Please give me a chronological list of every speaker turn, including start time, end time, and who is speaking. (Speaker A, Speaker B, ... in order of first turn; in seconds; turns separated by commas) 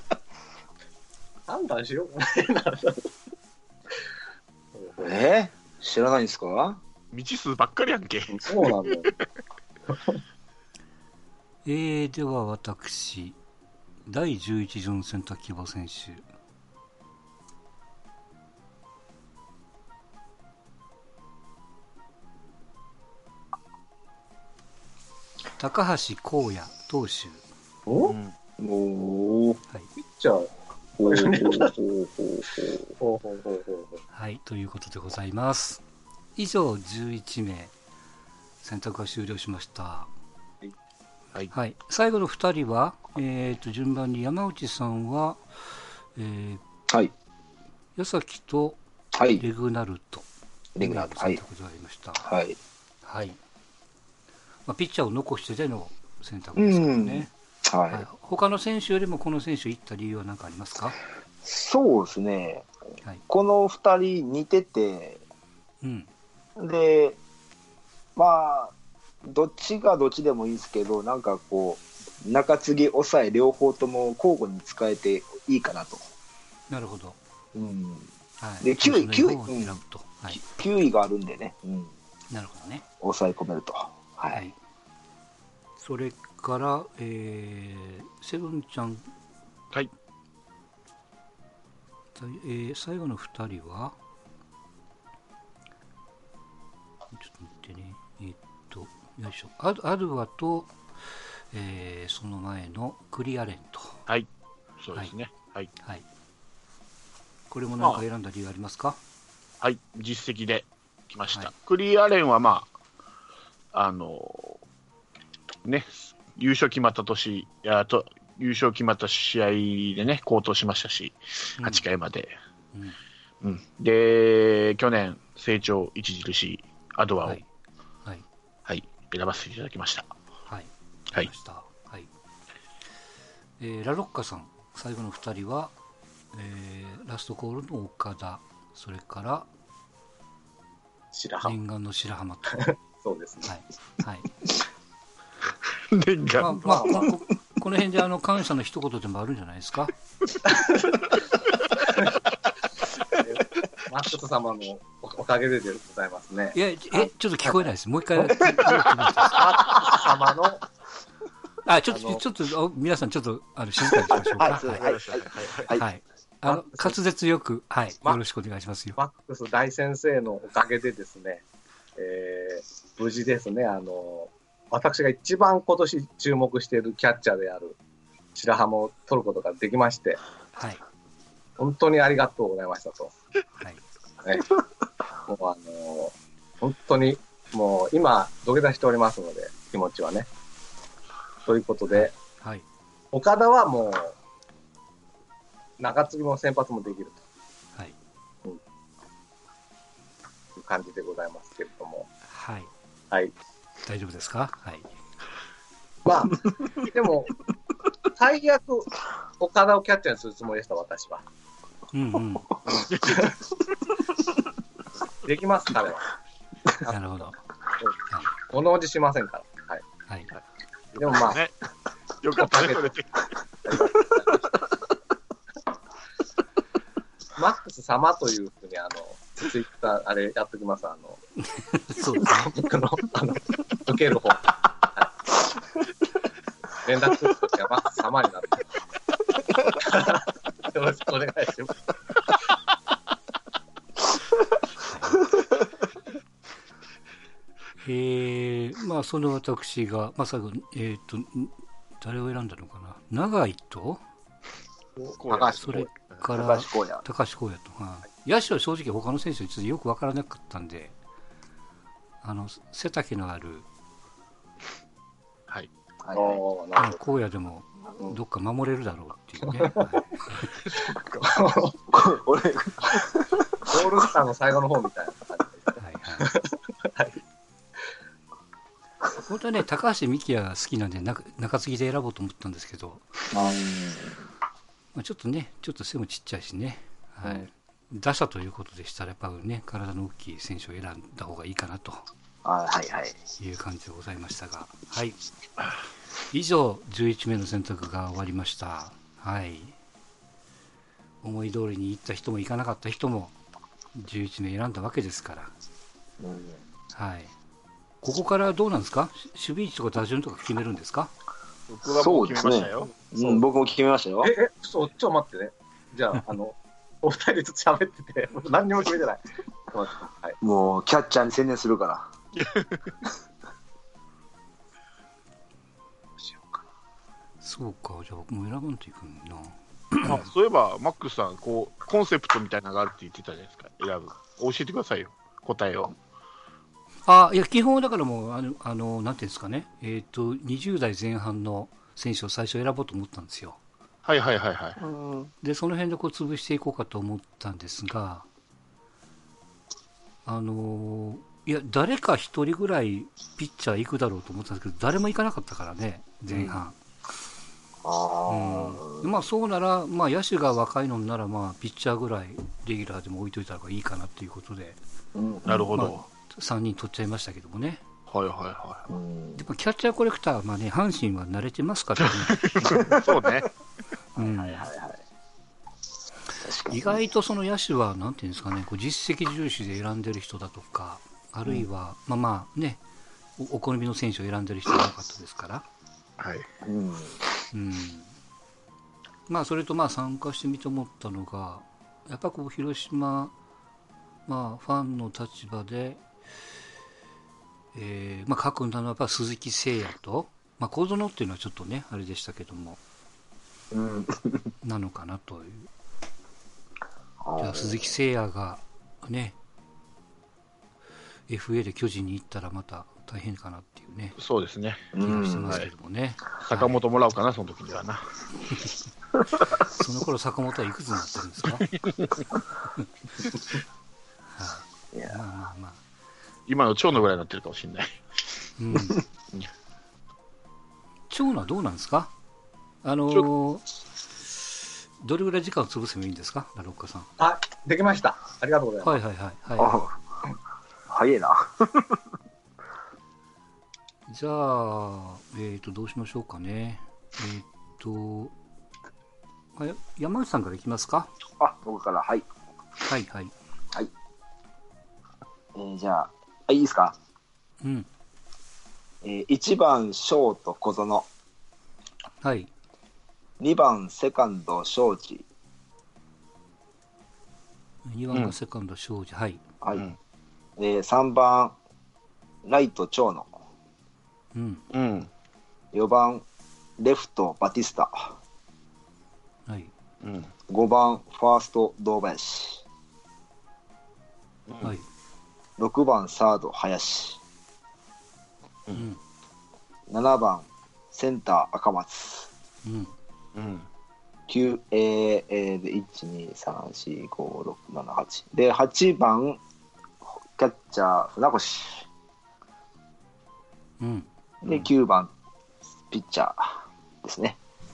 Speaker A: 1.5-3.1, Speaker A: 4.8-5.2, Speaker B: 5.0-6.8, Speaker C: 7.1-9.1, Speaker A: 8.3-9.1, Speaker A: 9.9-10.2, Speaker D: 11.7-13.4, Speaker D: 14.1-16.2, Speaker D: 25.6-27.4, Speaker A: 27.9-28.1, Speaker C: 28.0-28.4, Speaker B: 28.6-29.6, Speaker A: 30.0-30.5, Speaker B: 31.0-32.9, Speaker A: 31.1-31.7, Speaker A: 33.0-34.0, Speaker D: 34.1-35.8, Speaker D: 36.4-37.7, Speaker D: 38.6-40.1, Speaker D: 41.5-45.4, Speaker D: 46.2-46.6, Speaker D: 48.0-48.8, Speaker B: 49.1-49.5, Speaker D: 49.4-50.3, Speaker B: 50.8-51.4, Speaker D: 50.8-52.3, Speaker B: 52.2-52.6, Speaker D: 53.0-53.4, Speaker D: 54.7-57.3, Speaker B: 56.6-58.1, Speaker D: 57.9-61.0, Speaker B: 61.4-62.7, Speaker B: 63.3-65.2, Speaker D: 65.8-66.1, Speaker B: 66.6-67.2, Speaker B: 68.2-76.1, Speaker D: 76.7-77.2, Speaker B: 77.5-78.1, Speaker D: 78.4-80.6, Speaker B: 78.6-79.8, Speaker B: 80.3-81.9, Speaker D: 82.3-82.9, Speaker B: 83.0-84.5, Speaker D: 85.8-89.1, Speaker D: 92.2-94.0, Speaker D: 97.2-100.7, Speaker D: 101.5-104.0, Speaker C: 104.8-105.7, Speaker D: 107.5-109.0, Speaker C: 109.6-112.7, Speaker C: 113.7-114.6, Speaker C: 115.7-122.3, Speaker D: 121.6-121.9, Speaker C: 123.4-127.4, Speaker C: 128.7-130.1, Speaker D: 130.5-132.1, Speaker D: 133.6-135.7, Speaker D: 136.3-139.5, Speaker A: 141.1-141.6, Speaker D: 141.4-142.6, Speaker A: 142.5-143.5, Speaker D: 143.4-144.3, Speaker C: 145.9-147.1, Speaker D: 146.4-149.9, Speaker A: 146.6-147.1, Speaker A: 150.4-151.1, Speaker A: 151.8-152.2, Speaker A: 153.2-157.7, Speaker D: 156.5-159.5, Speaker A: 159.2-160.6, Speaker D: 161.7-164.8, Speaker B: 164.1-165.9, Speaker C: 164.7-165.7, Speaker D: 165.7-169.0, Speaker A: 166.5-167.0, Speaker A: 169.0-171.4, Speaker A: 172.0-177.8, Speaker A: 178.3-180.2, Speaker D: 180.6-180.8, Speaker A: 181.6-183.1, Speaker A: 184.2-184.6, Speaker A: 185.2-190.3, Speaker A: 191.5-192.1, Speaker D: 191.9-192.7, Speaker A: 193.1-194.2, Speaker A: 195.8-197.2, Speaker A: 200.6-202.1, Speaker D: 202.3-202.7, Speaker D: 203.8-204.9, Speaker A: 206.1-207.4, Speaker A: 208.1-211.2, Speaker D: 211.9-212.5, Speaker A: 212.7-213.3, Speaker C: 212.9-213.3, Speaker A: 215.2-216.0, Speaker D: 216.8-217.4, Speaker A: 218.5-219.8, Speaker C: 221.0-221.5, Speaker A: 221.0-221.4, Speaker C: 222.2-223.2, Speaker A: 222.4-222.9, Speaker A: 223.7-224.7, Speaker A: 227.4-231.2, Speaker D: 231.5-232.6, Speaker A: 232.3-235.1, Speaker A: 236.8-238.6, Speaker A: 239.7-241.8, Speaker D: 244.9-245.3, Speaker D: 247.8-254.0, Speaker A: 255.0-255.9, Speaker C: 255.2-256.2, Speaker D: 255.5-260.9, Speaker B: 256.4-257.1, Speaker D: 262.2-263.7, Speaker B: 266.0-266.4, Speaker A: 266.1-267.0, Speaker D: 266.8-270.5, Speaker A: 269.5-269.8, Speaker C: 270.8-271.2, Speaker A: 270.9-271.9, Speaker B: 271.9-273.8, Speaker A: 273.7-277.2, Speaker D: 275.8-276.3, Speaker D: 279.2-283.1, Speaker B: 283.3-284.2, Speaker D: 284.9-292.0, Speaker B: 292.4-293.2, Speaker D: 293.4-295.2, Speaker D: 296.3-299.8, Speaker D: 301.2-303.4, Speaker D: 303.9-305.5, Speaker B: 306.2-306.6, Speaker D: 306.9-307.3, Speaker D: 308.0-311.1, Speaker C: 311.7-313.0, Speaker B: 311.9-314.3, Speaker A: 314.2-320.4, Speaker B: 320.4-322.1, Speaker C: 322.4-322.9, Speaker A: 326.2-326.6, Speaker D: 327.4-330.3, Speaker C: 330.0-335.9, Speaker D: 337.1-343.6, Speaker C: 344.1-344.8, Speaker B: 344.8-345.3, Speaker D: 345.4-348.3, Speaker D: 350.3-356.8, Speaker B: 357.8-359.2, Speaker D: 358.3-364.8, Speaker B: 365.1-365.8, Speaker C: 365.5-366.0, Speaker D: 365.8-367.8, Speaker C: 368.1-368.9, Speaker B: 368.9-369.5, Speaker D: 369.4-372.8, Speaker C: 372.3-373.5, Speaker B: 372.8-373.1, Speaker D: 374.2-374.7, Speaker B: 374.2-375.0, Speaker B: 376.4-377.1, Speaker D: 376.7-382.8, Speaker D: 383.4-385.6, Speaker C: 386.2-386.5, Speaker B: 386.6-387.2, Speaker D: 387.5-388.1, Speaker D: 389.3-393.3, Speaker D: 394.3-396.0, Speaker D: 397.7-402.8, Speaker B: 403.7-404.5, Speaker D: 404.6-405.7, Speaker B: 407.2-407.9, Speaker D: 407.4-409.4, Speaker D: 411.3-414.2, Speaker C: 414.2-414.9, Speaker B: 414.9-415.6, Speaker D: 415.0-416.7, Speaker C: 416.4-418.0, Speaker D: 419.6-421.7, Speaker D: 424.3-425.8, Speaker B: 424.9-425.2, Speaker C: 426.5-427.9, Speaker D: 428.6-429.0, Speaker D: 431.1-432.1, Speaker D: 432.8-433.7, Speaker D: 435.0-437.1, Speaker A: 437.2-439.0, Speaker D: 438.8-439.8, Speaker B: 439.6-440.0, Speaker B: 440.9-442.0, Speaker D: 444.1-448.3, Speaker D: 449.6-451.1, Speaker B: 451.4-452.3, Speaker D: 452.8-453.3, Speaker B: 455.6-457.0, Speaker D: 457.6-457.9, Speaker B: 459.0-461.1, Speaker D: 462.2-462.5, Speaker B: 463.4-465.2, Speaker D: 467.9-469.4, Speaker B: 470.6-471.6, Speaker B: 472.4-473.3, Speaker D: 474.3-474.6, Speaker C: 474.7-475.1, Speaker B: 475.7-476.2, Speaker B: 476.8-478.2, Speaker D: 479.5-479.7, Speaker C: 480.0-480.3, Speaker B: 480.5-482.6, Speaker B: 485.6-487.2, Speaker D: 488.7-489.0, Speaker B: 489.9-492.3, Speaker D: 492.6-492.9, Speaker C: 493.4-493.7, Speaker B: 494.3-499.4, Speaker B: 500.1-501.9, Speaker D: 503.8-504.1, Speaker B: 504.4-505.1, Speaker B: 505.9-507.4